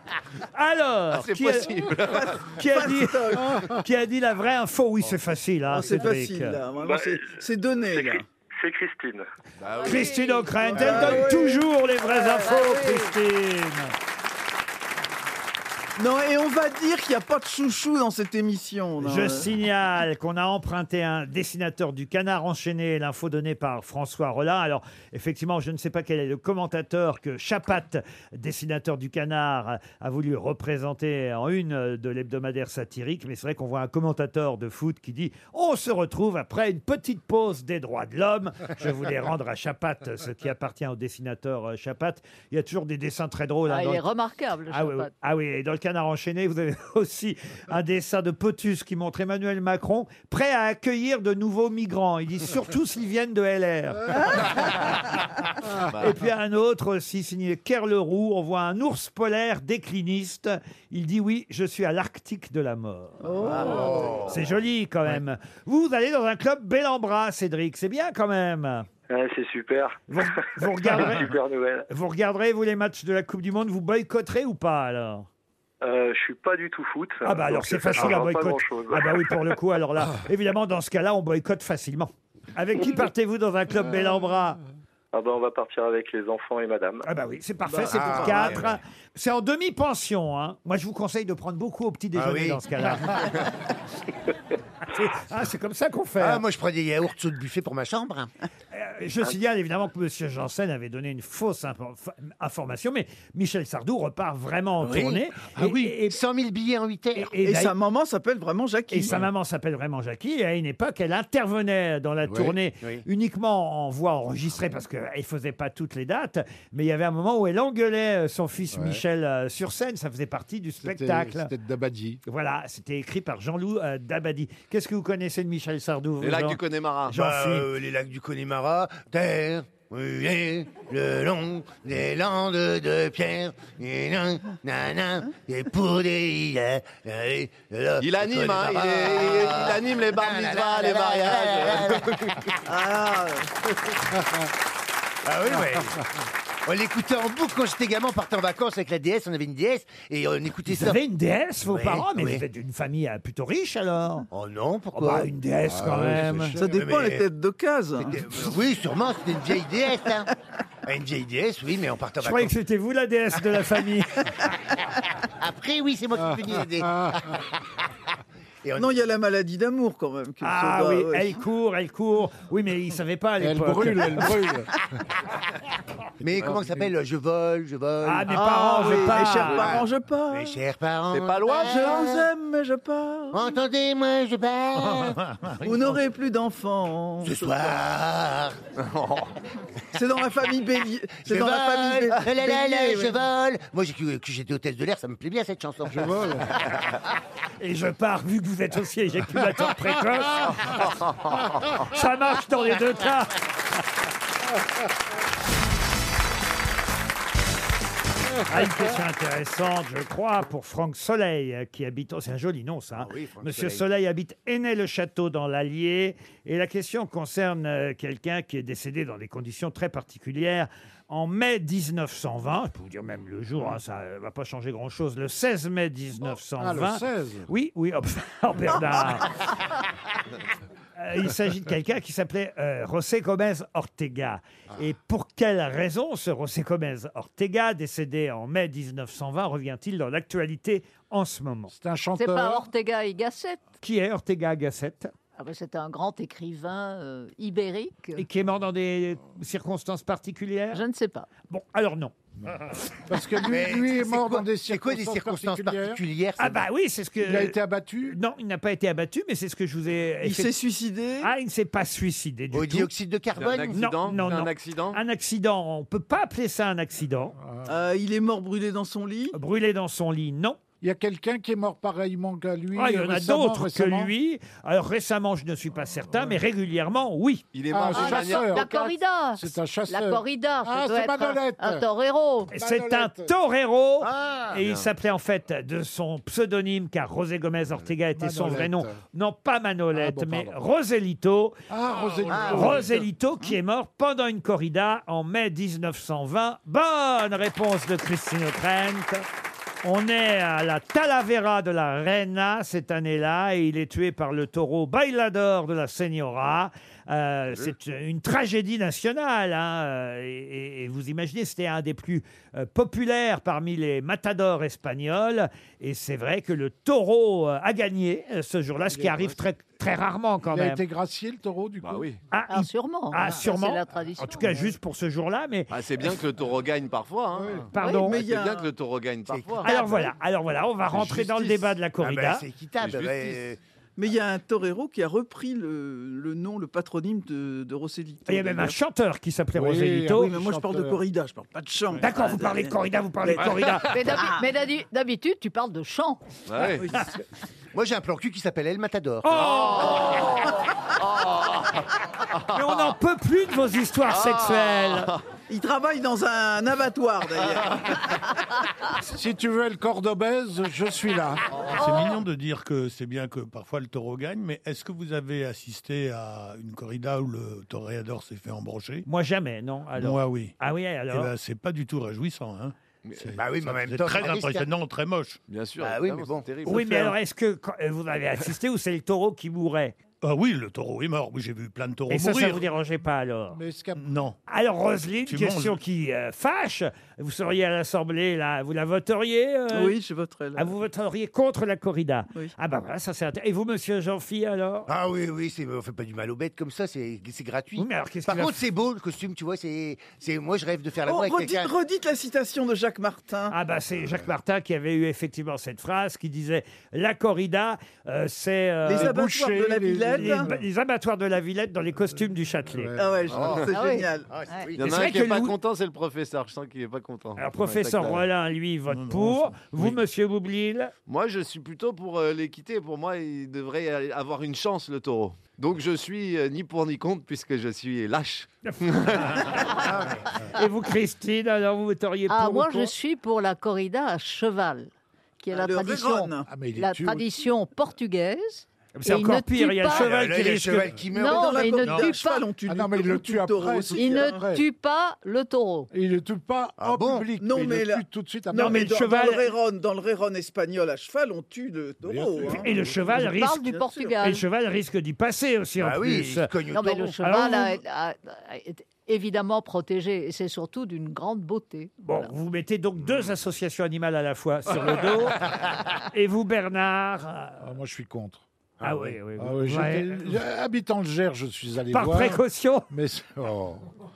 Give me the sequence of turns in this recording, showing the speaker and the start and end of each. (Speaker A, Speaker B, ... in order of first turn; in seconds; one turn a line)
Speaker A: 0.6-1.8
Speaker B: 1.1-2.4
Speaker C: 2.1-3.5
Speaker A: 2.5-6.6
Speaker C: 5.7-8.3
Speaker D: 8.6-9.3
Speaker B: 9.6-10.3
Speaker E: 9.8-10.7
Speaker A: 9.8-13.9
Speaker C: 10.7-12.5
Speaker E: 12.1-13.1
Speaker C: 16.0-19.5
Speaker A: 19.0-44.0
Speaker E: 43.7-45.1
Speaker A: 44.7-54.8
Speaker B: 55.9-56.2
Speaker A: 56.0-68.9
Speaker C: 63.2-64.3
Speaker F: 63.5-64.4
Speaker D: 69.1-71.9
Speaker A: 70.1-71.3
Speaker A: 71.9-75.3
Speaker D: 75.8-79.5
Speaker A: 77.2-84.6
Speaker D: 85.1-87.1
Speaker A: 87.0-93.1
Speaker C: 87.7-88.6
Speaker F: 87.9-88.8
Speaker F: 92.1-93.2
Speaker A: 94.8-96.4
Speaker F: 96.2-98.3
Speaker A: 98.7-106.2
Speaker F: 104.8-105.2
Speaker G: 105.6-105.9
Speaker F: 106.0-107.7
Speaker A: 107.2-107.8
Speaker C: 107.4-109.2
Speaker A: 108.9-121.5
Speaker H: 112.3-112.6
Speaker H: 118.7-119.0
Speaker H: 120.8-122.2
Speaker A: 122.3-127.7
Speaker B: 126.2-127.2
Speaker F: 127.1-142.4
Speaker B: 138.0-142.4
Speaker C: 142.7-143.5
Speaker F: 145.2-146.0
Speaker F: 146.7-151.0
Speaker A: 150.7-154.3
Speaker F: 151.7-152.4
Speaker F: 154.3-155.3
Speaker A: 154.9-156.6
Speaker H: 155.7-156.8
Speaker C: 156.6-158.2
Speaker F: 156.7-157.2
Speaker F: 158.0-160.3
Speaker F: 160.8-162.5
Speaker A: 162.2-164.4
Speaker F: 165.2-167.4
Speaker H: 166.8-167.2
Speaker F: 168.6-168.9
Speaker C: 168.8-171.4
Speaker A: 170.4-174.4
Speaker H: 173.4-174.7
Speaker F: 176.2-182.2
Speaker H: 176.4-176.8
Speaker A: 178.0-179.8
Speaker C: 178.3-180.6
Speaker B: 181.1-182.0
Speaker C: 181.5-183.4
Speaker F: 183.3-185.2
Speaker G: 184.8-185.6
Speaker C: 185.6-187.7
Speaker F: 187.2-188.6
Speaker B: 188.8-189.3
Speaker C: 189.9-193.2
Speaker F: 191.2-196.2
Speaker H: 195.9-196.6
Speaker A: 197.6-200.8
Speaker A: 201.8-203.4
Speaker A: 208.5-229.3
Speaker F: 212.9-213.8
Speaker H: 226.6-227.5
Speaker A: 231.0-241.7
Speaker H: 241.7-242.7
Speaker E: 242.2-243.6
Speaker A: 243.8-245.1
Speaker E: 245.4-248.2
Speaker A: 248.2-250.8
Speaker E: 250.7-251.3
Speaker A: 251.5-252.1
Speaker H: 253.1-256.0
Speaker F: 253.5-256.6
Speaker A: 256.4-260.5
Speaker H: 257.2-258.2
Speaker C: 260.2-261.3
Speaker A: 261.2-262.9
Speaker F: 262.5-263.8
Speaker B: 263.4-265.0
Speaker A: 263.8-267.4
Speaker H: 267.4-267.7
Speaker C: 267.7-269.4
Speaker A: 269.3-270.6
Speaker H: 270.8-274.1
Speaker A: 272.8-277.4
Speaker B: 277.5-278.9
Speaker H: 277.7-278.7
Speaker E: 277.9-282.5
Speaker H: 279.4-281.8
Speaker H: 282.5-283.3
Speaker A: 282.5-291.6
Speaker F: 284.0-284.6
Speaker B: 284.6-284.9
Speaker H: 288.1-289.0
Speaker H: 289.9-290.6
Speaker H: 291.7-293.0
Speaker F: 292.3-292.8
Speaker A: 292.5-299.3
Speaker A: 299.8-320.8
Speaker H: 318.9-319.3
Speaker H: 320.4-322.1
Speaker B: 321.8-322.2
Speaker A: 322.3-325.7
Speaker E: 322.5-324.7
Speaker B: 325.7-329.7
Speaker H: 327.4-327.7
Speaker A: 327.7-328.2
Speaker E: 327.8-328.2
Speaker C: 328.1-328.7
Speaker F: 329.3-329.7
Speaker A: 329.6-332.4
Speaker E: 329.7-330.0
Speaker F: 331.2-333.6
Speaker B: 332.8-333.4
Speaker C: 334.0-338.8
Speaker A: 338.3-340.3
Speaker H: 339.6-341.0
Speaker C: 340.2-342.8
Speaker A: 342.0-344.0
Speaker C: 343.3-344.4
Speaker E: 343.9-346.2
Speaker B: 346.5-346.9
Speaker C: 346.6-347.1
Speaker F: 347.7-349.5
Speaker A: 349.2-350.0
Speaker B: 349.4-351.8
Speaker A: 352.5-355.1
Speaker B: 354.1-355.2
Speaker C: 355.5-358.0
Speaker H: 359.0-361.4
Speaker G: 361.7-369.1
Speaker A: 369.1-371.3
Speaker G: 370.0-370.5
Speaker G: 371.1-375.4
Speaker B: 373.0-373.3
Speaker F: 373.4-374.7
Speaker B: 375.5-377.1
Speaker F: 375.8-376.8
Speaker A: 376.6-380.0
Speaker G: 380.2-382.6
Speaker A: 382.1-383.6
Speaker H: 383.5-384.0
Speaker G: 384.0-384.4
Speaker A: 384.5-390.0
Speaker G: 385.3-385.8
Speaker C: 389.7-390.7
Speaker A: 390.6-394.9
Speaker F: 394.9-401.7
Speaker A: 397.8-398.6
Speaker C: 401.1-403.5
Speaker A: 403.5-409.2
Speaker C: 408.9-410.5
Speaker H: 408.9-410.6
Speaker A: 410.1-413.0
Speaker H: 412.7-413.2
Speaker C: 413.0-414.3
Speaker B: 413.3-413.6
Speaker F: 413.4-413.6
Speaker E: 413.7-414.7
Speaker F: 414.3-414.8
Speaker B: 414.8-418.2
Speaker A: 414.8-415.6
Speaker A: 417.4-420.9
Speaker G: 418.9-420.0
Speaker B: 421.1-429.5
Speaker A: 428.7-429.6
Speaker F: 429.8-430.2
Speaker A: 430.6-432.9
Speaker E: 432.3-434.9
Speaker E: 435.4-440.1
Speaker C: 435.5-436.5
Speaker H: 436.5-437.3
Speaker A: 438.9-440.9
Speaker F: 439.9-442.0
Speaker E: 441.1-442.5
Speaker C: 441.2-444.4
Speaker G: 441.8-442.1
Speaker H: 442.7-444.6
Speaker E: 443.9-445.9
Speaker H: 445.9-448.9
Speaker F: 446.8-447.3
Speaker C: 447.4-452.7
Speaker A: 448.6-449.5
Speaker H: 452.0-453.1
Speaker A: 452.5-456.5
Speaker E: 453.1-454.4
Speaker C: 453.7-454.1
Speaker F: 455.8-457.2
Speaker E: 456.7-462.3
Speaker A: 457.2-457.7
Speaker A: 462.0-465.4
Speaker A: 466.1-467.6
Speaker H: 467.6-468.4
Speaker A: 468.8-470.4
Speaker H: 469.4-473.8
Speaker A: 471.9-472.9